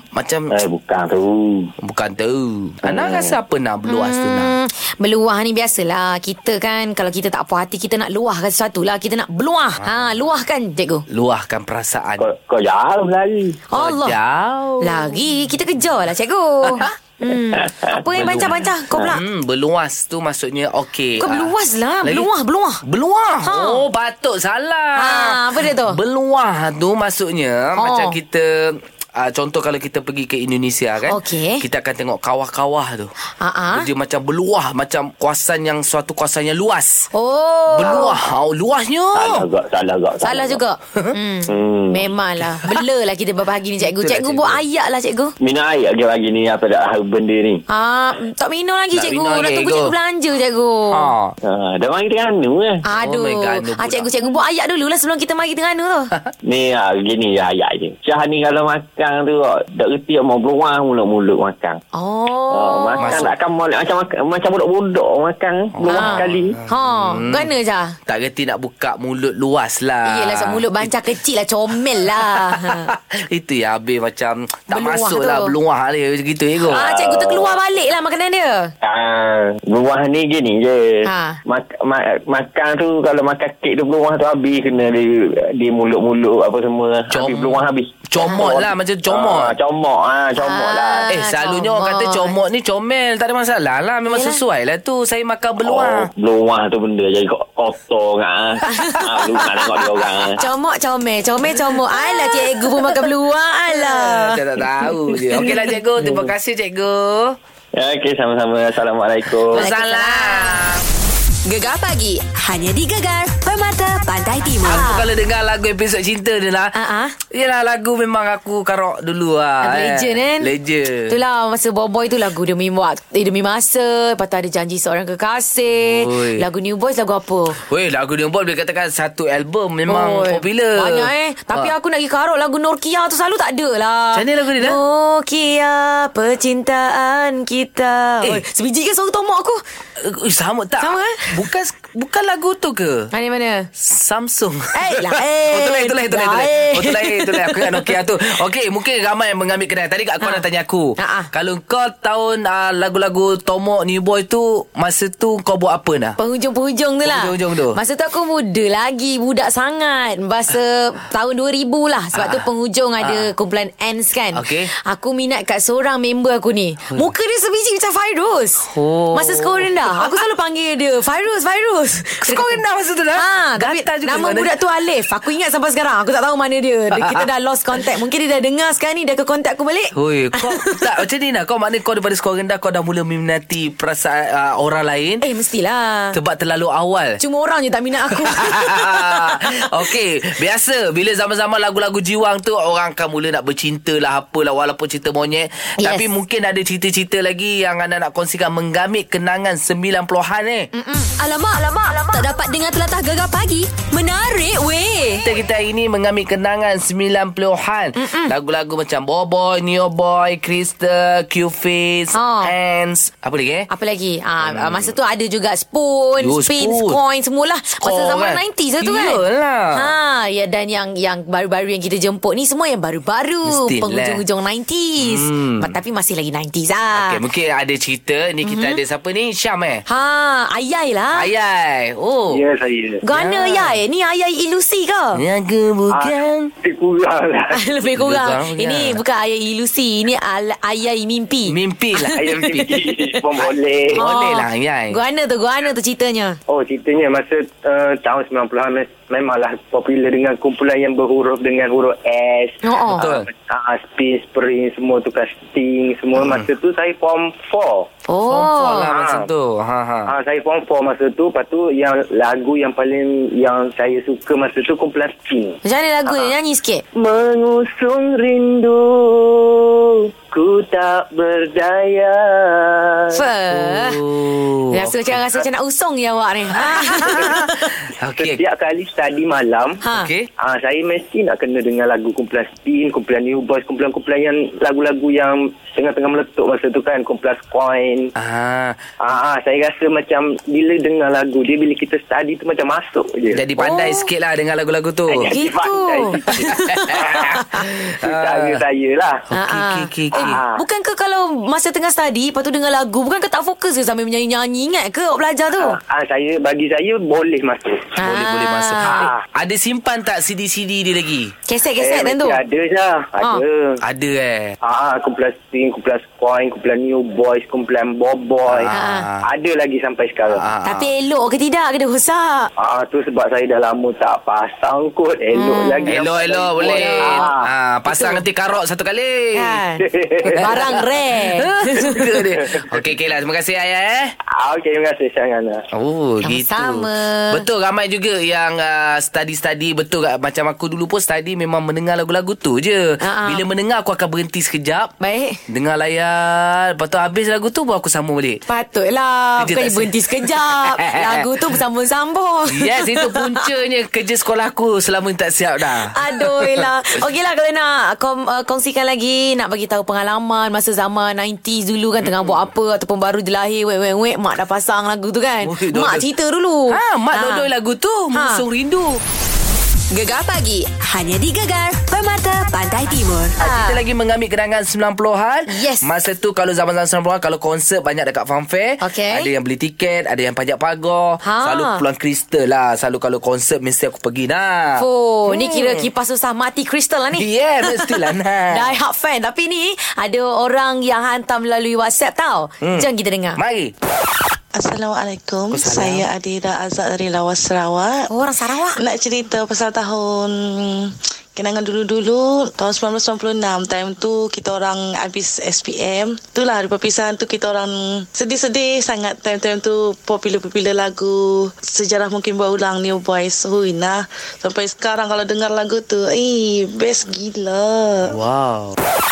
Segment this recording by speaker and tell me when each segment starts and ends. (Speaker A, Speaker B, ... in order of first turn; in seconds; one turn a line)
Speaker A: 0.1-0.6
Speaker B: 0.5-1.7
Speaker A: 1.8-4.6
Speaker B: 2.9-3.4
Speaker C: 3.9-11.1
Speaker A: 9.8-10.1
Speaker A: 11.1-12.3
Speaker B: 12.2-13.6
Speaker C: 13.7-14.2
Speaker A: 13.7-15.2
Speaker C: 14.8-19.2
Speaker B: 17.5-19.1
Speaker A: 18.1-21.5
Speaker C: 21.2-22.8
Speaker A: 22.0-22.3
Speaker A: 22.8-33.1
Speaker C: 23.4-23.8
Speaker C: 25.0-26.0
Speaker C: 27.8-28.2
Speaker C: 31.1-31.6
Speaker C: 33.4-33.9
Speaker A: 33.7-37.1
Speaker C: 37.1-38.1
Speaker A: 37.7-39.5
Speaker B: 39.1-40.6
Speaker C: 40.2-45.3
Speaker B: 41.5-42.1
Speaker A: 43.9-44.6
Speaker B: 45.4-47.6
Speaker C: 47.7-51.1
Speaker A: 48.9-50.0
Speaker A: 50.9-51.3
Speaker B: 51.5-52.8
Speaker C: 52.9-56.1
Speaker A: 52.9-54.1
Speaker B: 56.5-61.8
Speaker C: 61.9-63.3
Speaker B: 62.5-66.6
Speaker A: 63.0-63.3
Speaker A: 65.7-67.5
Speaker C: 65.9-68.0
Speaker A: 68.1-70.9
Speaker C: 70.1-72.9
Speaker A: 72.2-76.8
Speaker C: 74.7-75.5
Speaker B: 76.7-77.5
Speaker C: 76.7-78.7
Speaker B: 78.8-91.1
Speaker C: 81.0-81.4
Speaker A: 87.1-89.6
Speaker C: 90.4-92.4
Speaker A: 91.1-96.1
Speaker C: 94.1-94.4
Speaker B: 95.6-100.4
Speaker C: 98.7-99.2
Speaker A: 99.2-100.3
Speaker C: 100.4-104.4
Speaker A: 101.7-103.0
Speaker A: 103.7-107.4
Speaker B: 107.7-109.6
Speaker A: 109.4-110.8
Speaker C: 109.5-110.7
Speaker C: 111.5-113.1
Speaker D: 112.6-114.9
Speaker C: 114.2-115.0
Speaker A: 114.7-116.8
Speaker C: 116.7-117.2
Speaker A: 117.3-121.2
Speaker C: 119.6-120.5
Speaker C: 121.1-127.6
Speaker A: 125.7-126.5
Speaker A: 127.6-131.7
Speaker C: 129.9-139.6
Speaker A: 134.1-134.8
Speaker A: 140.0-143.1
Speaker C: 140.8-141.3
Speaker C: 143.1-143.7
Speaker A: 143.8-156.2
Speaker C: 144.8-147.9
Speaker C: 151.0-151.3
Speaker C: 156.2-172.6
Speaker A: 157.0-157.8
Speaker A: 162.1-162.4
Speaker A: 163.0-163.3
Speaker A: 164.3-164.7
Speaker A: 168.7-170.2
Speaker A: 172.2-174.5
Speaker C: 173.2-180.8
Speaker A: 177.0-177.2
Speaker A: 179.9-185.2
Speaker C: 185.2-186.2
Speaker A: 186.1-187.2
Speaker C: 187.2-189.4
Speaker A: 188.2-200.7
Speaker C: 195.8-196.1
Speaker C: 200.7-201.2
Speaker D: 201.2-205.0
Speaker C: 201.9-203.4
Speaker C: 204.0-204.8
Speaker A: 205.2-213.7
Speaker C: 208.0-208.3
Speaker C: 212.1-212.5
Speaker C: 213.7-219.2
Speaker A: 214.4-214.9
Speaker A: 216.2-217.0
Speaker A: 217.8-220.0
Speaker C: 219.7-227.2
Speaker A: 223.4-224.2
Speaker A: 225.0-225.8
Speaker A: 226.9-229.8
Speaker C: 228.4-228.8
Speaker C: 229.9-231.3
Speaker A: 231.1-232.4
Speaker E: 232.3-233.0
Speaker C: 233.0-235.2
Speaker A: 233.1-233.8
Speaker A: 235.2-236.5
Speaker E: 235.9-237.6
Speaker C: 237.5-241.6
Speaker A: 237.9-239.0
Speaker A: 241.5-243.4
Speaker E: 242.0-244.0
Speaker A: 243.9-245.0
Speaker C: 243.9-246.4
Speaker E: 246.5-257.9
Speaker C: 252.6-253.0
Speaker A: 253.0-253.3
Speaker A: 256.2-256.5
Speaker C: 258.1-258.9
Speaker A: 258.3-260.1
Speaker E: 258.8-259.3
Speaker E: 260.1-266.3
Speaker C: 265.6-266.8
Speaker E: 266.9-273.3
Speaker C: 273.1-274.0
Speaker A: 273.5-275.2
Speaker C: 274.7-277.7
Speaker E: 276.8-277.5
Speaker A: 277.0-278.4
Speaker E: 278.2-279.8
Speaker C: 279.8-280.1
Speaker A: 279.9-280.3
Speaker E: 280.4-288.1
Speaker A: 288.2-288.8
Speaker E: 289.0-293.4
Speaker A: 293.3-295.3
Speaker C: 293.6-294.1
Speaker E: 295.1-299.2
Speaker C: 295.3-297.7
Speaker A: 296.9-298.6
Speaker A: 299.3-300.4
Speaker C: 299.3-305.8
Speaker E: 300.1-300.6
Speaker E: 305.5-307.9
Speaker C: 308.0-309.1
Speaker A: 308.0-311.3
Speaker E: 308.9-309.2
Speaker C: 311.5-312.4
Speaker E: 311.8-313.8
Speaker A: 313.8-314.6
Speaker E: 314.6-318.7
Speaker A: 318.5-319.3
Speaker C: 318.7-319.1
Speaker E: 319.2-320.5
Speaker A: 320.3-320.9
Speaker C: 320.6-322.5
Speaker E: 322.6-327.5
Speaker C: 325.3-326.0
Speaker A: 325.9-329.6
Speaker C: 326.6-327.3
Speaker C: 327.9-328.2
Speaker C: 329.4-332.1
Speaker E: 329.8-330.5
Speaker A: 330.4-334.1
Speaker E: 332.4-332.8
Speaker E: 334.4-335.6
Speaker A: 335.8-344.9
Speaker C: 336.2-337.4
Speaker C: 343.0-343.4
Speaker C: 345.0-345.4
Speaker A: 345.5-348.4
Speaker C: 348.5-353.4
Speaker A: 349.4-351.3
Speaker A: 352.5-356.7
Speaker C: 355.9-367.5
Speaker A: 362.0-362.4
Speaker A: 365.4-366.1
Speaker A: 366.7-369.0
Speaker C: 368.1-368.4
Speaker C: 369.9-370.7
Speaker D: 370.9-373.3
Speaker C: 373.0-373.8
Speaker A: 373.4-385.9
Speaker C: 375.5-375.9
Speaker C: 378.8-379.3
Speaker C: 381.2-381.8
Speaker C: 384.8-388.0
Speaker A: 387.1-388.8
Speaker C: 388.5-393.4
Speaker A: 392.6-393.7
Speaker F: 394.5-398.1
Speaker A: 395.5-396.1
Speaker C: 398.1-398.8
Speaker F: 398.8-418.1
Speaker A: 418.1-418.8